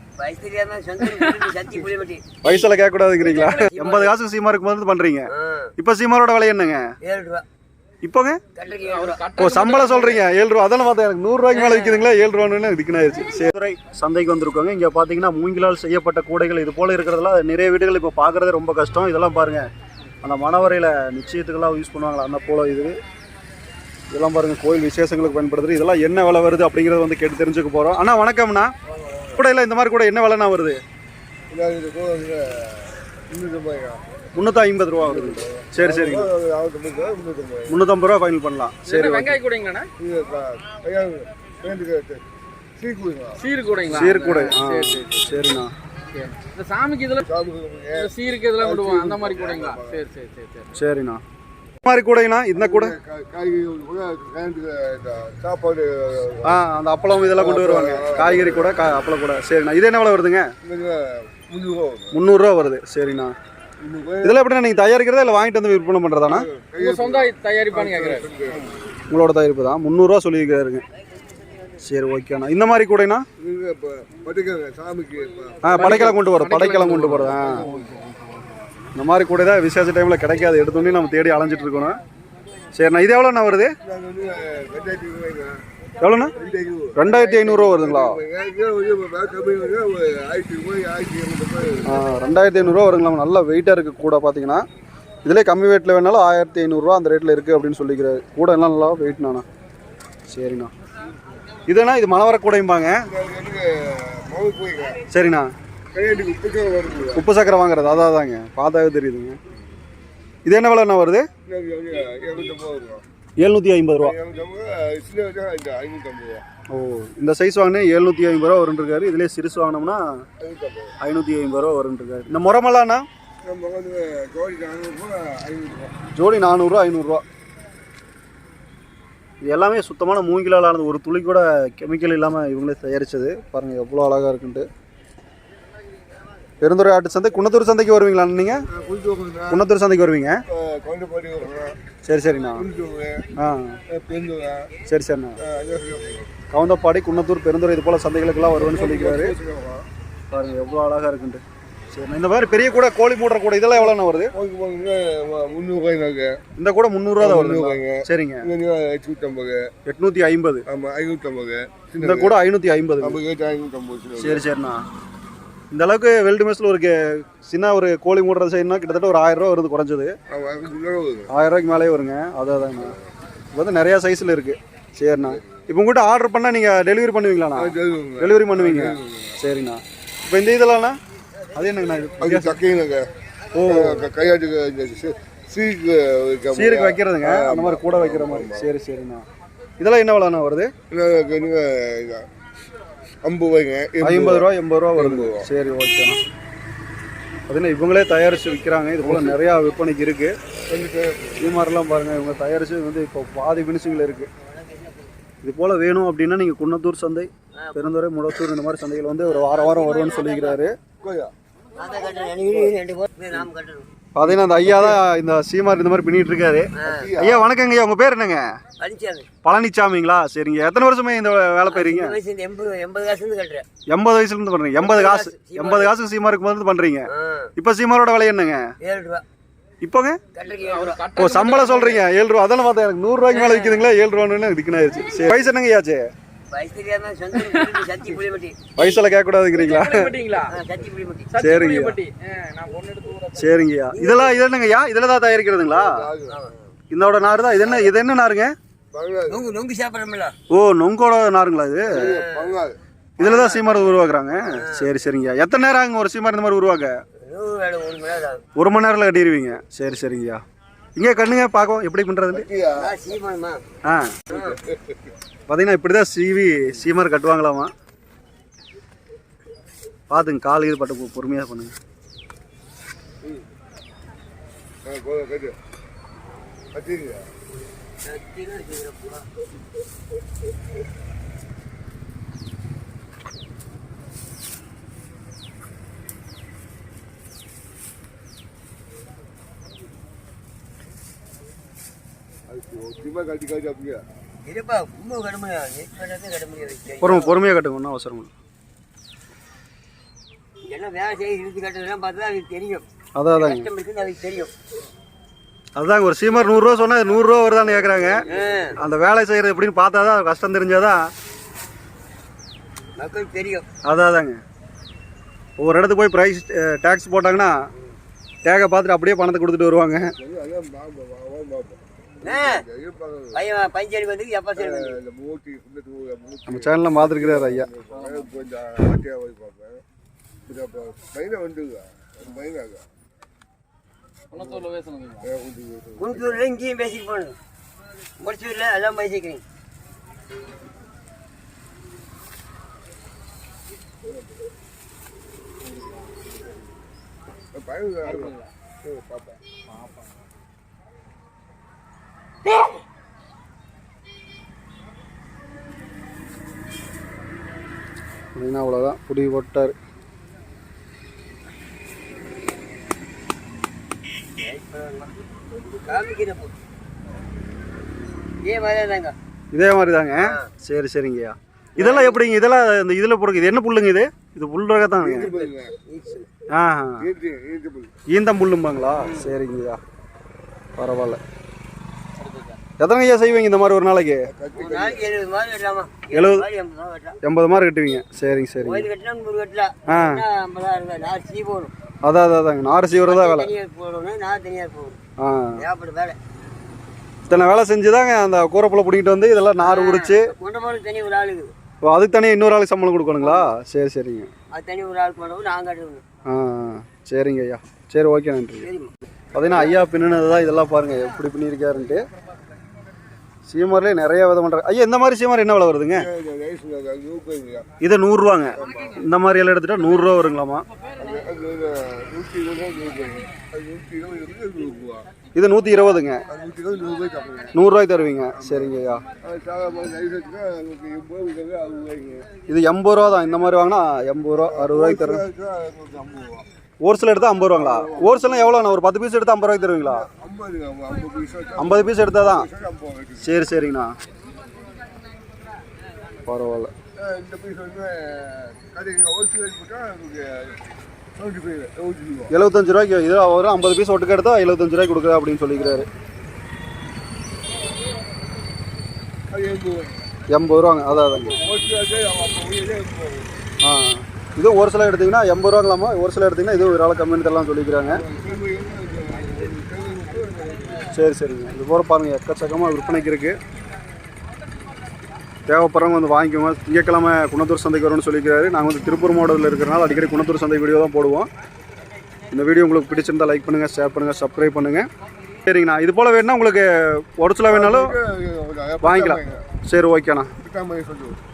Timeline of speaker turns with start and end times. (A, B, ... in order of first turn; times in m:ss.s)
0:00.2-0:02.3 A
0:01.0-0:01.5 B
0:02.4-0:06.8 C
0:03.2-0:03.9 B
0:03.5-0:04.1 A
0:05.3-0:05.7 A
0:07.0-0:07.4 A
0:08.0-0:08.4 C
0:08.5-0:09.2 A
0:08.8-0:10.2 B
0:09.4-0:19.7 C
0:11.5-0:12.0 B
0:20.2-0:23.0 C
0:24.1-0:28.7 C
0:28.9-0:29.4 D
0:29.4-0:30.8 C
0:31.5-0:34.0 D
0:34.4-0:36.3 C
0:35.0-0:37.8 D
0:37.7-0:39.4 C
0:38.8-0:39.9 B
0:40.0-0:42.2 D
0:42.8-0:43.4 D
0:43.4-0:45.3 B
0:43.9-0:45.7 C
0:46.1-0:47.2 B
0:47.2-0:50.0 D
0:47.9-0:50.7 B
0:50.7-0:51.2 C
0:51.8-0:53.0 C
0:52.6-0:56.6 D
0:56.4-1:00.5 C
0:57.3-0:58.9 D
1:00.6-1:02.2 D
1:02.1-1:03.3 C
1:03.8-1:04.4 D
1:04.2-1:06.5 C
1:06.2-1:08.7 D
1:06.8-1:08.5 B
1:09.1-1:10.8 C
1:11.8-1:13.2 C
1:13.4-1:16.1 D
1:15.6-1:17.6 C
1:15.7-1:17.7 B
1:17.2-1:18.0 D
1:19.0-1:22.0 C
1:22.7-1:23.7 C
1:23.8-1:25.6 D
1:26.0-1:26.3 C
1:26.3-1:32.2 D
1:27.0-1:28.2 C
1:31.8-1:34.6 C
1:35.2-1:39.4 C
1:40.3-1:40.7 C
1:41.7-1:43.0 C
1:43.1-1:45.0 D
1:45.1-1:45.5 C
1:45.9-1:47.3 D
1:47.1-1:49.4 C
1:50.4-1:51.3 C
1:51.4-1:53.0 D
1:53.4-1:54.2 C
1:54.0-1:56.4 D
1:56.7-2:00.2 C
2:00.4-2:00.9 D
2:01.0-2:03.0 C
2:03.4-2:06.0 D
2:06.1-2:07.2 C
2:09.4-2:14.6 C
2:16.6-2:18.6 C
2:18.7-2:19.6 D
2:19.5-2:20.4 C
2:20.5-2:21.8 D
2:22.0-2:22.6 C
2:22.5-2:23.3 D
2:23.4-2:23.8 C
2:23.9-2:24.7 D
2:24.9-2:25.4 C
2:25.4-2:26.3 D
2:26.5-2:29.4 C
2:28.5-2:29.8 D
2:30.3-2:34.3 C
2:33.8-2:36.4 D
2:36.6-2:38.5 C
2:37.2-2:39.7 D
2:39.8-2:40.6 C
2:40.7-2:42.4 D
2:42.0-2:43.2 C
2:43.0-2:44.5 D
2:44.2-2:44.8 C
2:45.7-2:50.1 C
2:50.3-2:51.3 D
2:51.3-2:53.0 C
2:53.5-3:01.0 C
2:55.2-2:55.6 D
2:57.5-2:59.4 D
3:01.5-3:02.6 C
3:02.2-3:03.1 D
3:03.5-3:04.0 C
3:03.7-3:08.7 D
3:06.5-3:09.2 C
3:09.8-3:10.7 C
3:10.9-3:12.2 D
3:13.2-3:15.5 D
3:14.0-3:16.2 C
3:17.5-3:20.3 C
3:19.0-3:19.4 D
3:20.7-3:21.5 D
3:21.4-3:24.3 C
3:24.4-3:25.1 A
3:25.4-3:30.8 C
3:27.6-3:27.8 A
3:29.2-3:30.7 A
3:31.0-3:31.3 D
3:31.8-3:33.9 A
3:34.2-3:38.4 C
3:34.2-3:35.0 D
3:36.8-3:37.1 A
3:36.8-3:37.5 D
3:38.8-3:39.3 A
3:39.4-3:42.2 C
3:41.7-3:43.6 A
3:43.9-3:48.7 C
3:44.8-3:46.0 A
3:47.1-3:47.5 A
3:48.8-3:49.2 A
3:49.8-3:50.2 C
3:50.3-3:51.0 A
3:50.6-3:52.0 B
3:51.2-3:56.0 C
3:53.3-3:53.9 A
3:56.5-3:58.6 A
3:57.4-3:57.8 B
3:58.8-4:00.2 C
3:59.5-4:00.5 B
4:00.5-4:01.3 A
4:01.3-4:03.6 B
4:01.4-4:02.0 C
4:03.4-4:06.0 C
4:03.9-4:04.5 A
4:05.7-4:06.5 D
4:06.3-4:06.5 A
4:06.9-4:08.5 C
4:07.6-4:07.9 A
4:08.9-4:09.4 D
4:09.3-4:10.3 A
4:10.5-4:12.1 C
4:11.9-4:12.8 D
4:11.9-4:12.6 A
4:13.2-4:17.0 C
4:13.2-4:14.9 A
4:17.2-4:18.4 A
4:18.6-4:20.4 C
4:21.0-4:22.5 C
4:22.3-4:22.9 D
4:22.8-4:23.6 A
4:23.8-4:24.3 C
4:24.3-4:24.6 A
4:24.3-4:25.0 D
4:25.5-4:27.7 C
4:30.1-4:31.7 C
4:34.8-4:35.6 D
4:36.7-4:37.3 D
4:38.0-4:39.2 A
4:52.5-4:54.0 D
4:54.4-4:57.4 A
4:57.0-4:58.3 C
5:00.6-5:02.8 A
5:03.2-5:03.7 C
5:03.4-5:04.5 A
5:05.8-5:08.2 C
5:08.2-5:08.8 A
5:08.8-5:11.1 C
5:13.0-5:13.6 A
5:13.8-5:14.4 C
5:15.6-5:17.6 C
5:18.4-5:20.1 C
5:20.0-5:23.4 D
5:22.2-5:22.6 A
5:23.3-5:25.0 A
5:24.6-5:29.8 D
5:26.5-5:27.7 C
5:27.9-5:28.4 B
5:30.4-5:32.8 D
5:34.3-5:35.3 B
5:34.4-5:34.6 D
5:35.2-5:36.4 D
5:36.0-5:37.4 A
5:38.2-5:39.4 A
5:47.5-5:49.4 D
5:48.0-5:48.5 B
5:58.3-5:59.7 C
6:04.3-6:06.5 A
6:08.4-6:09.1 A
6:09.5-6:15.3 C
6:10.2-6:10.5 A
6:11.8-6:12.2 A
6:15.0-6:15.7 D
6:15.3-6:16.3 A
6:16.5-6:17.1 C
6:17.0-6:17.9 D
6:18.1-6:19.8 C
6:19.0-6:19.3 A
6:20.8-6:21.2 C
6:22.2-6:22.6 B
6:22.8-6:24.3 C
6:24.2-6:25.1 D
6:24.6-6:27.2 A
6:26.1-6:26.5 C
6:27.2-6:28.9 C
6:28.6-6:31.7 A
6:29.9-6:30.2 C
6:32.0-6:33.5 C
6:33.0-6:35.0 A
6:35.2-6:35.6 C
6:35.6-6:36.2 A
6:37.3-6:40.3 C
6:39.6-6:41.5 A
6:41.8-6:44.3 C
6:43.2-6:43.5 A
6:44.5-6:46.0 A
6:46.2-6:48.7 C
6:48.6-6:49.7 A
6:49.3-6:52.0 C
6:53.5-6:56.1 C
6:55.9-6:57.7 D
6:57.8-7:00.6 C
6:58.5-6:59.0 D
7:01.0-7:05.1 D
7:05.3-7:06.2 C
7:06.3-7:07.6 D
7:07.5-7:09.0 C
7:08.3-7:12.3 D
7:12.5-7:15.2 C
7:14.4-7:16.4 D
7:16.8-7:20.1 C
7:17.5-7:18.6 D
7:19.8-7:23.5 D
7:21.6-7:22.5 C
7:23.2-7:24.0 C
7:26.3-7:26.7 C
7:27.0-7:30.6 D
7:31.1-7:32.3 D
7:32.3-7:35.9 C
7:39.3-7:40.1 D
7:40.3-7:41.4 C
7:41.0-7:43.4 D
7:43.6-7:48.0 C
7:47.8-7:50.9 D
7:50.9-7:53.4 C
7:55.5-8:01.3 C
8:02.3-8:04.9 C
8:05.4-8:08.0 C
8:07.5-8:09.5 D
8:08.8-8:10.3 C
8:10.4-8:11.2 D